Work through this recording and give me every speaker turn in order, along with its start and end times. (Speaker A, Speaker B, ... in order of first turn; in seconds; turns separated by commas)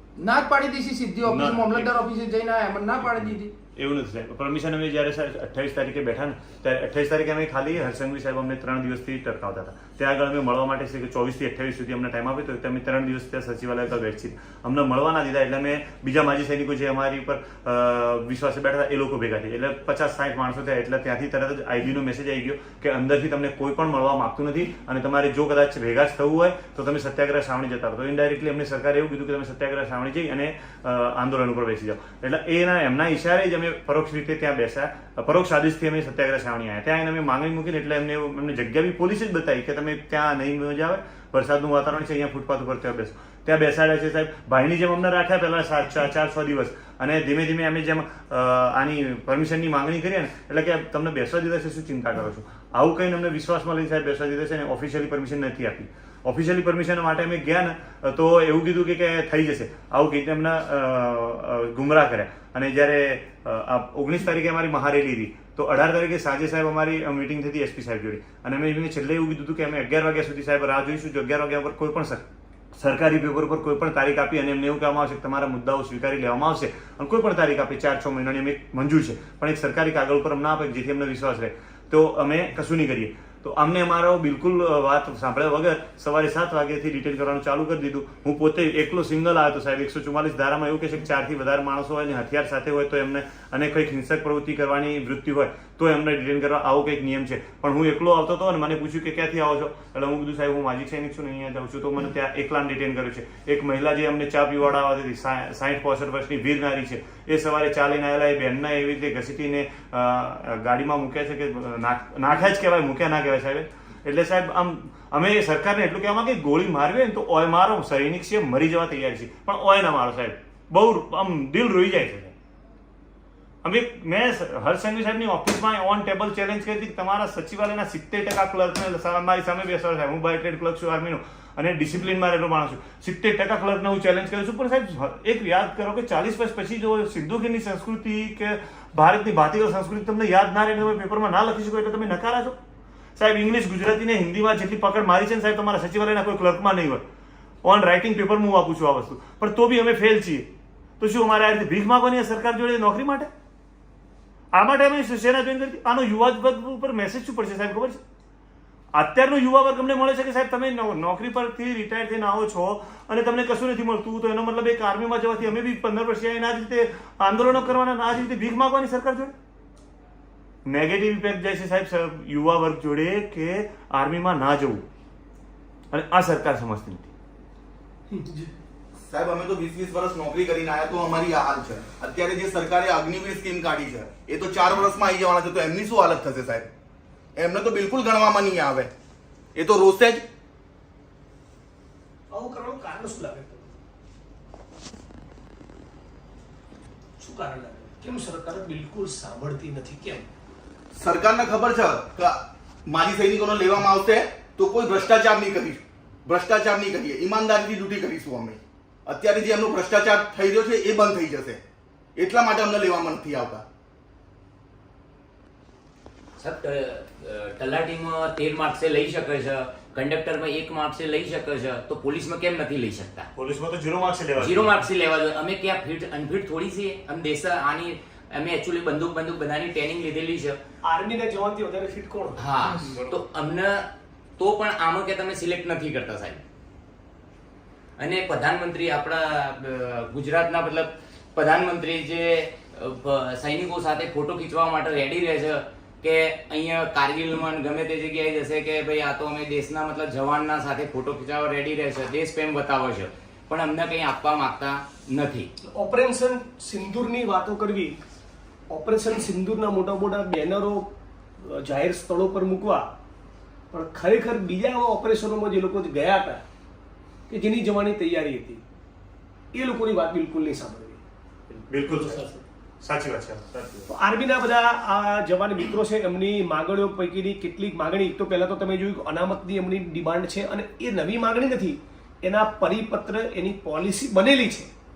Speaker A: 0.2-3.5, Speaker B: 1.2-1.9, Speaker B: 3.0-72.2, Speaker B: 72.8-122.3, Speaker B: 123.6-142.6, Speaker B: 143.2-147.0, Speaker B: 147.6-150.5, Speaker B: 151.0-153.3, Speaker B: 154.5-158.0, Speaker B: 158.9-169.3, Speaker B: 170.7-174.8, Speaker B: 175.9-177.1, Speaker C: 178.1-178.5, Speaker D: 179.1-186.7, Speaker D: 187.3-188.9, Speaker D: 189.5-190.2, Speaker C: 192.3-193.8, Speaker C: 197.2-200.3, Speaker D: 200.9-211.6, Speaker D: 212.2-213.6, Speaker E: 216.4-223.3, Speaker B: 223.3-224.8, Speaker E: 224.4-230.6, Speaker C: 230.8-232.5, Speaker E: 232.4-233.8, Speaker B: 232.8-233.1, Speaker E: 234.4-236.4, Speaker E: 238.0-255.5, Speaker C: 255.7-258.0, Speaker C: 258.7-260.9, Speaker C: 261.4-262.9, Speaker C: 263.7-266.4, Speaker C: 267.3-268.6, Speaker C: 269.5-271.0, Speaker B: 271.7-272.2, Speaker B: 272.8-273.9, Speaker C: 273.9-284.7